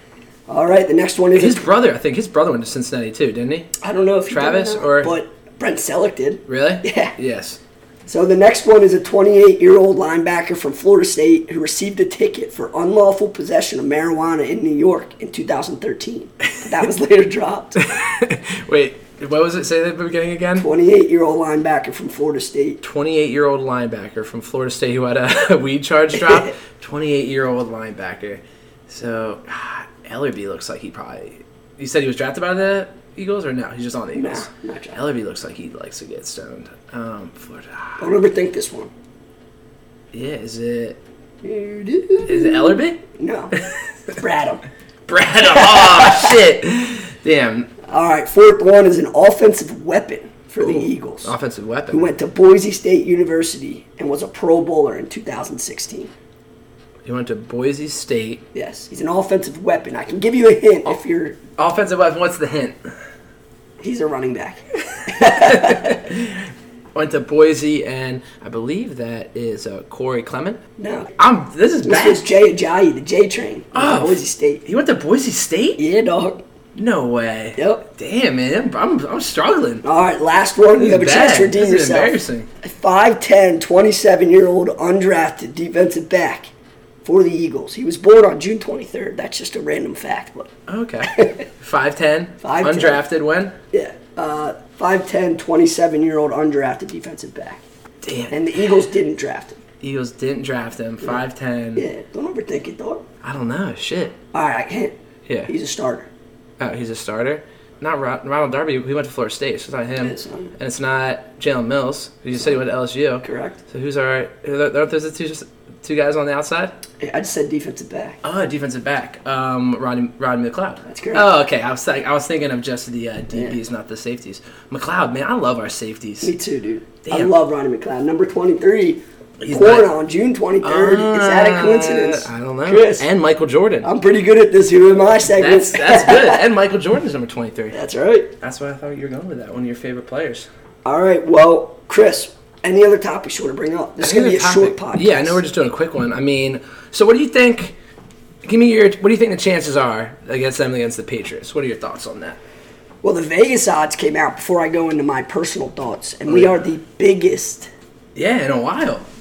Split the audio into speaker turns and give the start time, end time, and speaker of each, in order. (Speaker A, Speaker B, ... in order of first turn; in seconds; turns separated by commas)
Speaker A: 0.5-1.7, Speaker B: 1.4-3.8, Speaker A: 3.8-7.2, Speaker B: 4.3-5.2, Speaker B: 6.5-7.6, Speaker A: 8.1-17.8, Speaker B: 17.8-20.7, Speaker A: 20.6-22.8, Speaker B: 22.8-38.1, Speaker A: 26.2-26.5, Speaker A: 34.1-35.0, Speaker A: 38.0-38.9, Speaker B: 40.1-41.0, Speaker A: 41.4-43.6, Speaker B: 42.3-43.0, Speaker A: 44.1-44.6, Speaker B: 45.1-47.7, Speaker A: 45.4-46.3, Speaker A: 47.9-51.3, Speaker B: 50.6-52.1, Speaker A: 51.9-56.1, Speaker B: 57.0-58.5, Speaker A: 58.5-61.4, Speaker B: 61.6-62.8, Speaker A: 63.8-66.0, Speaker B: 65.1-70.6, Speaker A: 70.8-71.1, Speaker B: 71.2-72.2, Speaker A: 71.8-74.6, Speaker B: 73.7-75.8, Speaker A: 75.8-76.4, Speaker B: 76.8-79.8, Speaker A: 77.6-77.9, Speaker A: 79.8-86.5, Speaker B: 80.8-82.5, Speaker A: 87.0-90.5, Speaker B: 90.7-93.6, Speaker A: 91.1-91.4, Speaker A: 92.4-93.0, Speaker A: 93.7-97.6, Speaker B: 98.0-98.6, Speaker A: 98.3-99.6, Speaker B: 99.8-101.9, Speaker A: 101.8-103.0, Speaker B: 103.2-104.2, Speaker A: 104.3-105.0, Speaker B: 105.3-105.5, Speaker A: 105.5-106.1, Speaker B: 106.6-116.8, Speaker A: 110.0-110.5, Speaker A: 113.2-113.6, Speaker A: 117.0-118.2, Speaker B: 118.2-126.3, Speaker A: 120.9-121.3, Speaker A: 126.2-133.1, Speaker B: 127.1-127.3, Speaker B: 129.4-129.9, Speaker B: 130.6-133.9, Speaker A: 133.8-136.4, Speaker B: 135.4-137.8, Speaker A: 137.7-138.3, Speaker B: 138.4-140.5, Speaker A: 140.8-145.4, Speaker B: 144.0-147.8, Speaker B: 148.4-152.4, Speaker A: 153.0-157.7, Speaker B: 156.3-156.6, Speaker B: 158.2-159.1